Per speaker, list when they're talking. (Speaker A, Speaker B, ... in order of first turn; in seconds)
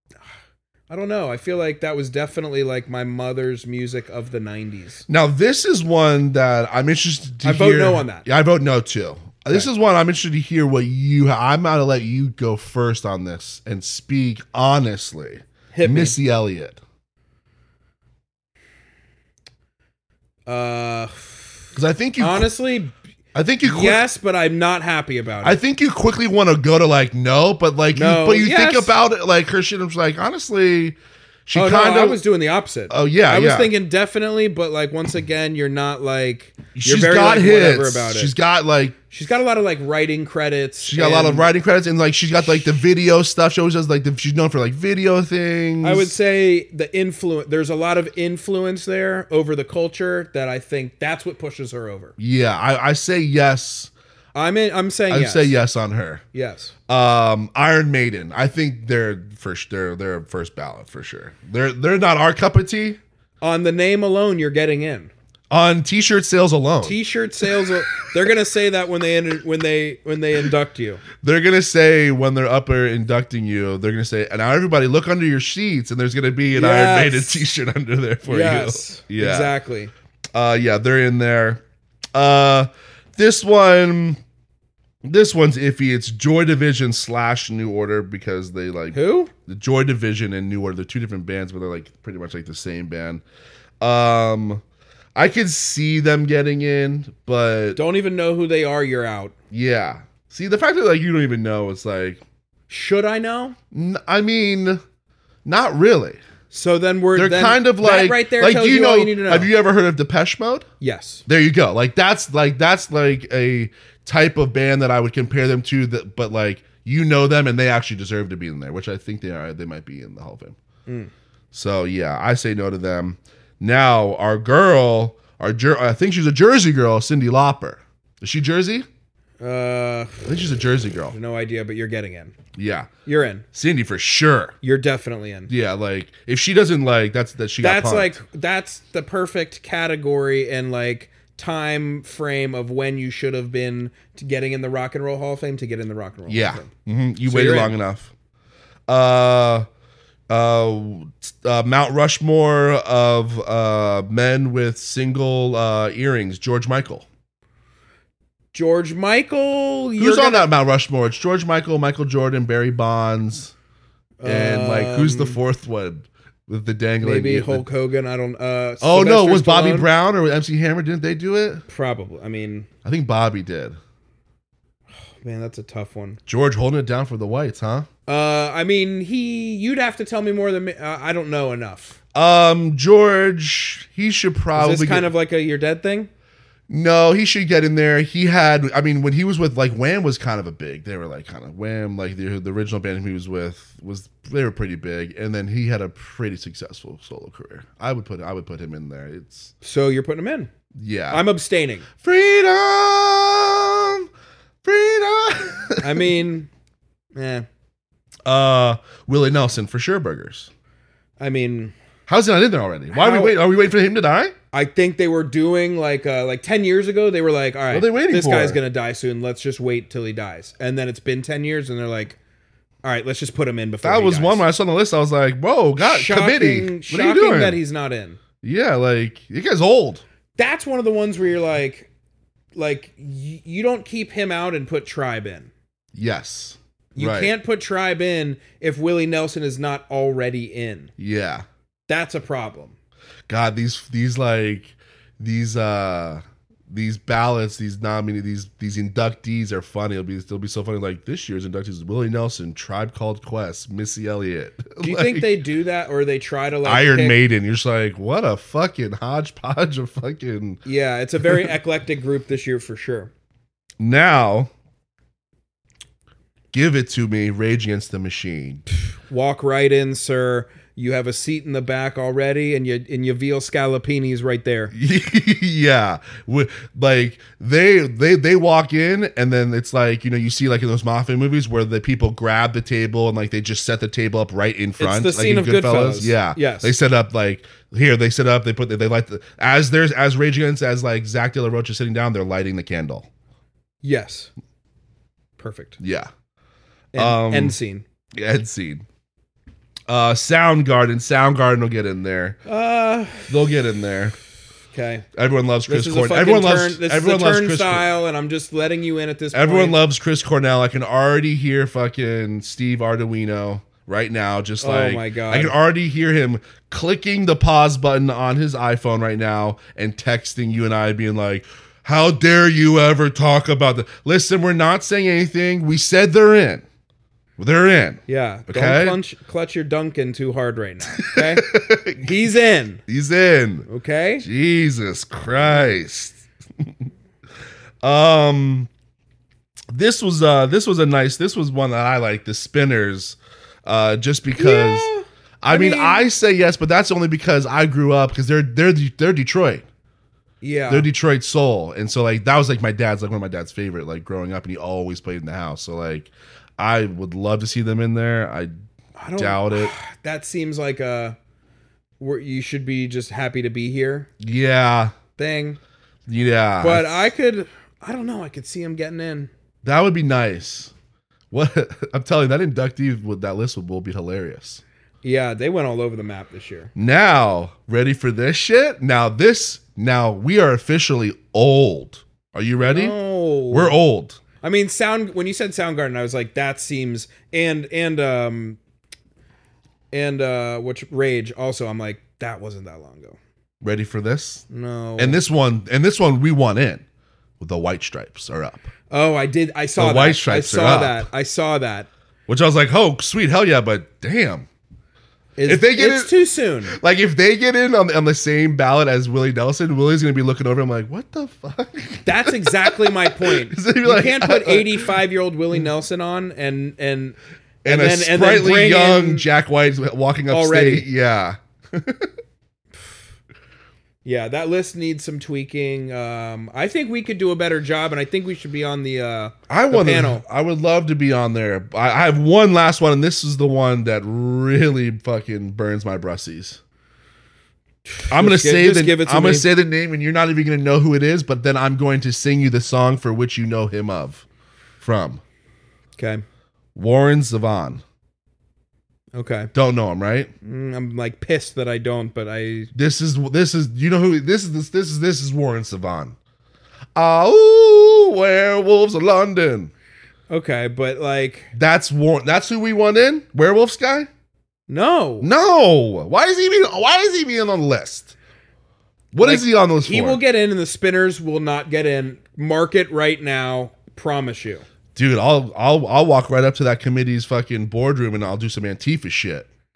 Speaker A: 0.9-5.0, 7.4-8.2, 15.7-16.2, 20.5-21.6, 22.2-22.9, 23.6-25.6, 27.9-28.9, 31.5-38.3, 39.1-41.5, 45.8-52.1, 54.3-55.6, 56.3-56.7, 63.4-65.1, 66.8-71.0, 76.5-77.5, 78.3-79.9, 88.9-89.3, 97.8-99.3, 102.7-103.6, 106.5-109.5, 110.8-111.2, 120.9-121.1, 129.4-130.2, 131.1-132.3, 133.1-133.4, 134.6-135.5, 137.6-146.7, 147.2-147.7, 158.5-160.5, 164.2-165.4, 167.0-169.9, 171.7-172.7, 175.1-176.2, 178.1-182.0, 184.6-186.1, 199.6-200.5, 201.1-201.9, 205.8-206.5, 207.2-207.5, 211.2-211.7, 212.9-213.4, 214.5-222.2, 222.8-224.4, 225.8-228.2, 230.4-231.9, 232.6-235.5, 237.0-240.9, 241.9-242.8, 254.8-257.2, 260.6-263.1, 268.9-274.7, 284.8-286.8, 293.8-294.3, 295.4-295.8, 296.9-297.8, 302.5-303.3, 304.7-305.1, 305.7-309.8, 314.6-315.6, 328.1-332.8, 333.7-334.3, 344.4-346.1, 350.4-350.9, 359.0-361.2, 362.0-364.1, 365.2-365.6, 366.6-369.3, 375.0-376.7, 382.6-383.8, 384.4-388.6, 389.9-393.2, 394.5-395.2, 398.9-401.9, 405.4-406.8, 412.1-419.3, 420.3-420.9, 424.1-430.2, 437.9-439.5, 446.0-446.2, 449.1-449.5, 450.4-452.7, 460.3-461.5, 464.7-465.3, 469.2-474.6
Speaker B: 5.1-16.8, 21.8-22.5, 23.3-24.0, 25.4-32.2, 32.9-33.7, 36.8-39.0, 40.8-46.1, 52.2-53.9, 55.1-56.2, 56.9-63.0, 65.5-67.0, 71.2-79.5, 80.3-81.6, 82.1-84.2, 85.0-93.2, 93.8-94.6, 95.2-97.8, 99.5-102.2, 103.7-104.8, 105.5-106.2, 107.2-110.7, 111.3-120.6, 121.5-128.9, 130.3-131.2, 132.6-132.9, 133.5-134.6, 135.5-138.2, 146.3-148.1, 148.9-149.7, 150.3-157.1, 160.0-163.5, 164.2-167.7, 168.8-171.6, 172.8-173.8, 176.3-177.9, 182.1-185.1, 186.7-199.5, 200.8-201.2, 202.0-204.1, 204.6-206.1, 208.2-210.5, 212.1-214.3, 217.7-218.6, 223.8-227.6, 228.4-230.0, 235.9-237.3, 241.0-241.5, 243.3-255.3, 256.6-260.6, 263.8-264.5, 266.5-268.6, 274.7-293.1, 295.8-296.1, 296.9-297.6, 298.2-298.9, 299.9-302.4, 303.3-304.1, 305.1-307.9, 309.3-326.6, 327.4-329.0, 331.0-332.2, 332.9-333.7, 334.2-336.7, 337.8-338.7, 339.7-344.9, 345.4-349.6, 350.7-358.5, 359.2-359.7, 364.2-364.9, 366.1-367.1, 369.6-370.7, 371.3-374.6, 376.8-383.0, 383.5-384.2, 393.6-394.4, 395.0-396.8, 397.4-398.7, 399.8-401.1, 402.3-404.5, 405.4-406.1, 406.7-414.9, 417.6-422.1, 429.5-436.6, 438.1-444.2, 444.8-445.2, 446.8-447.8, 449.5-450.3, 452.7-456.2, 456.9-459.7, 461.5-464.1, 465.2-468.1, 469.1-470.2, 474.9-479.5